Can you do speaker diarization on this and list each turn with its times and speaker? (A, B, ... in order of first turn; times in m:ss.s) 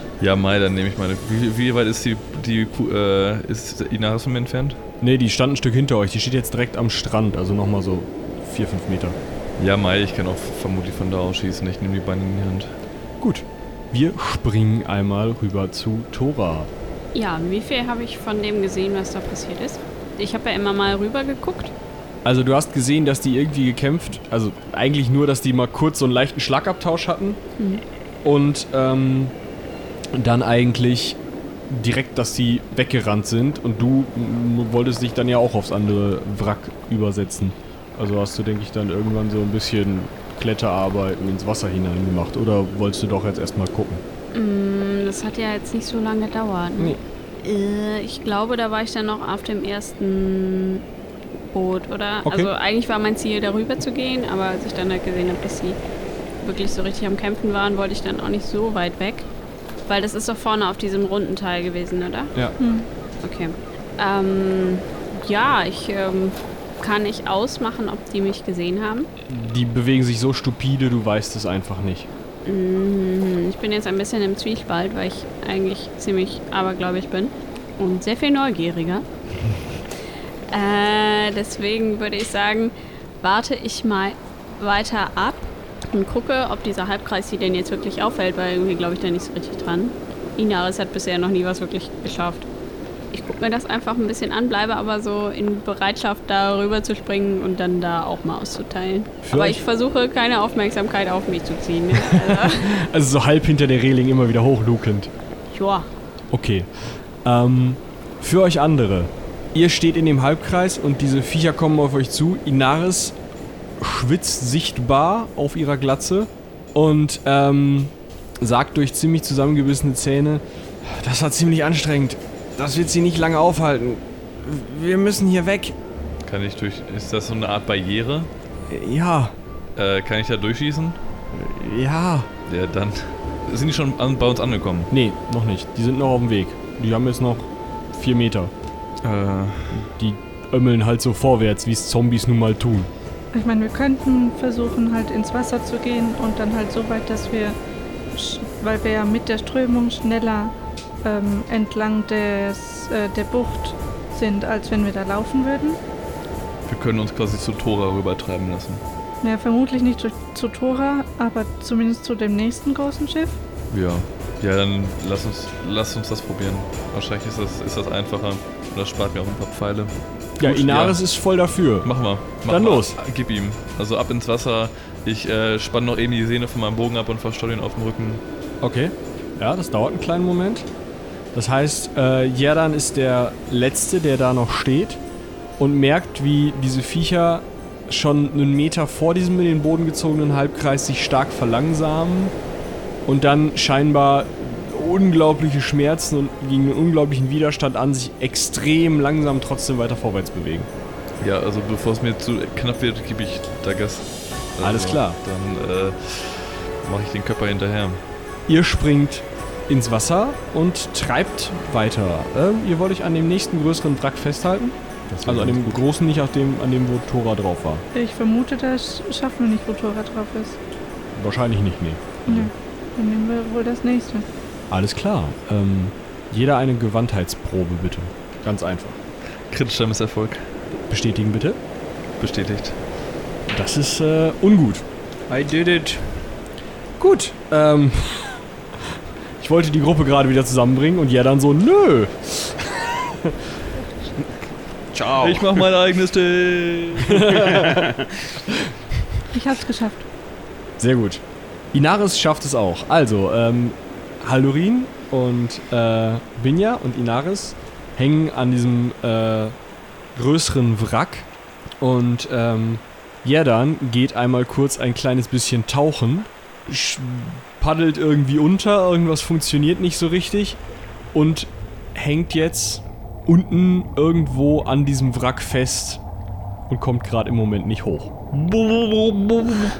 0:00.2-0:04.8 A
0:05.0-0:09.2 B
0:09.6-0:12.7 A
0:13.2-0:16.7 B
0:17.1-0:21.7 C
0:22.2-0:27.4 B
0:27.6-0:27.8 C
0:28.2-0:29.3 B
0:30.1-0:31.2 B
0:31.7-0:44.0 B
0:44.3-0:50.8 C
0:51.5-0:55.8 C
0:52.2-0:52.5 B
0:56.4-0:59.3 C
0:59.9-1:02.3 C
1:02.6-1:02.9 D
1:03.2-1:09.1 C
1:09.3-1:12.1 B
1:12.4-1:19.0 C
1:20.5-1:32.5 C
1:33.1-1:42.8 C
1:39.2-1:39.6 B
1:42.1-1:45.1 B
1:45.5-1:45.9 C
1:46.3-1:53.2 B
1:53.8-2:05.7 B
2:06.2-2:08.3 A
2:08.7-2:09.3 B
2:09.8-2:11.0 A
2:11.3-2:12.3 B
2:12.5-2:14.9 A
2:14.9-2:18.5 B
2:19.0-2:19.9 A
2:19.7-2:22.9 B
2:23.3-2:27.6 D
2:28.1-2:35.8 D
2:36.6-2:38.8 A
2:39.2-2:43.4 D
2:43.7-2:51.1 A
2:50.4-2:53.0 B
2:51.8-2:58.2 A
2:58.6-3:00.7 B
3:01.3-3:05.0 B
3:05.6-3:12.3 B
3:13.0-3:20.7 B
3:21.2-3:28.0 A
3:24.6-3:25.2 B
3:28.5-3:37.8 B
3:35.1-3:35.8 A
3:37.9-3:40.6 D
3:41.1-3:42.5 B
3:42.3-3:44.3 D
3:44.7-3:49.0 B
3:49.5-3:50.5 A
3:50.9-3:51.6 B
3:52.2-3:52.8 A
3:53.5-3:54.8 B
3:55.3-3:56.2 E
3:57.0-3:58.4 B
3:59.4-4:03.3 B
4:04.9-4:05.7 E
4:05.2-4:07.3 A
4:07.1-4:07.8 B
4:07.3-4:08.3 E
4:09.3-4:10.0 D
4:10.8-4:19.6 B
4:20.2-4:21.3 B
4:21.8-4:30.6 B
4:31.1-4:36.0 B
4:36.7-4:39.6 B